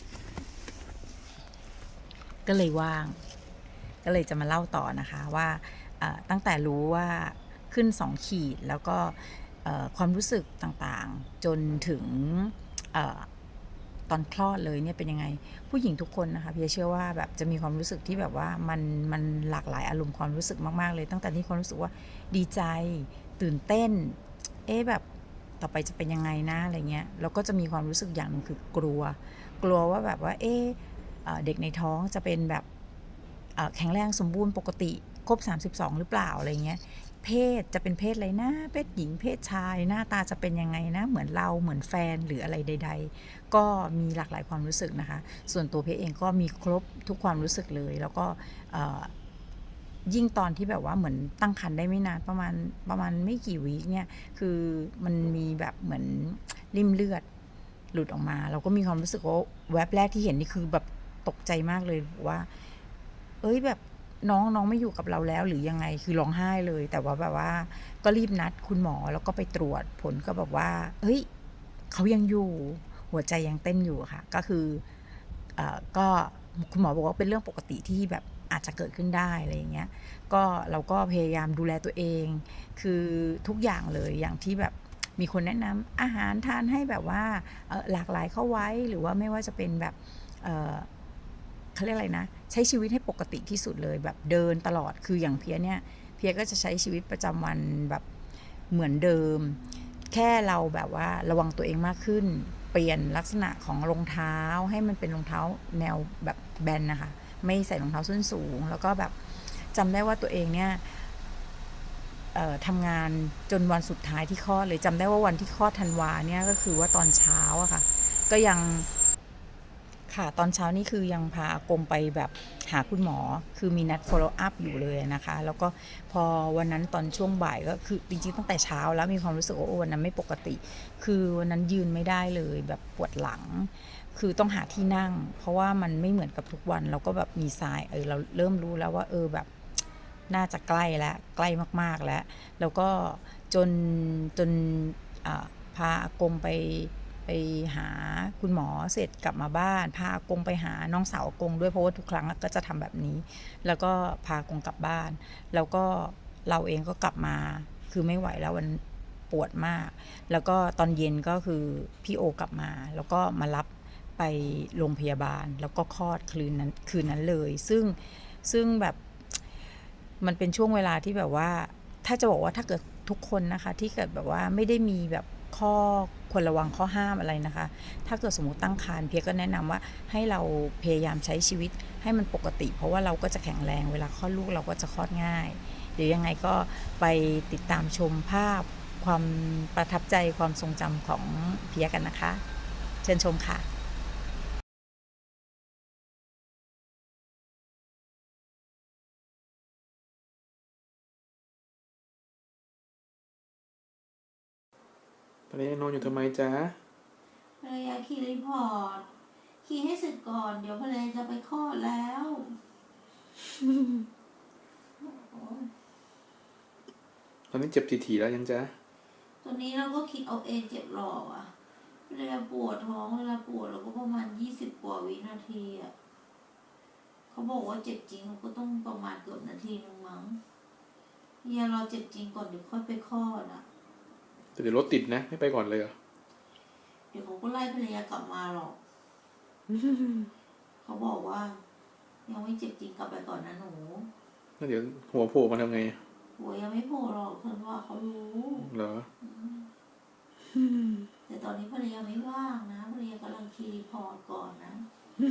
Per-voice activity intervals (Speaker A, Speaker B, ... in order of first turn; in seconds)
Speaker A: 2.5-3.2, 4.0-13.3, 14.1-25.0, 25.6-32.6, 33.6-49.1, 50.0-57.2, 57.9-62.5, 63.4-71.3, 71.9-74.8, 75.5-90.9, 91.7-98.0, 98.7-111.1, 112.3-118.9, 120.1-139.5, 140.3-169.4, 170.2-192.4, 193.0-193.7
Speaker B: 205.5-206.8, 217.5-218.7, 234.5-235.9, 239.8-240.3, 244.6-246.0, 248.5-249.1
Speaker C: 207.6-209.1, 209.6-212.6, 215.0-215.7, 219.4-221.5, 222.1-225.9, 227.3-230.4, 231.4-233.6, 237.1-238.8, 240.8-241.6, 242.2-244.1, 246.4-249.7, 251.2-254.9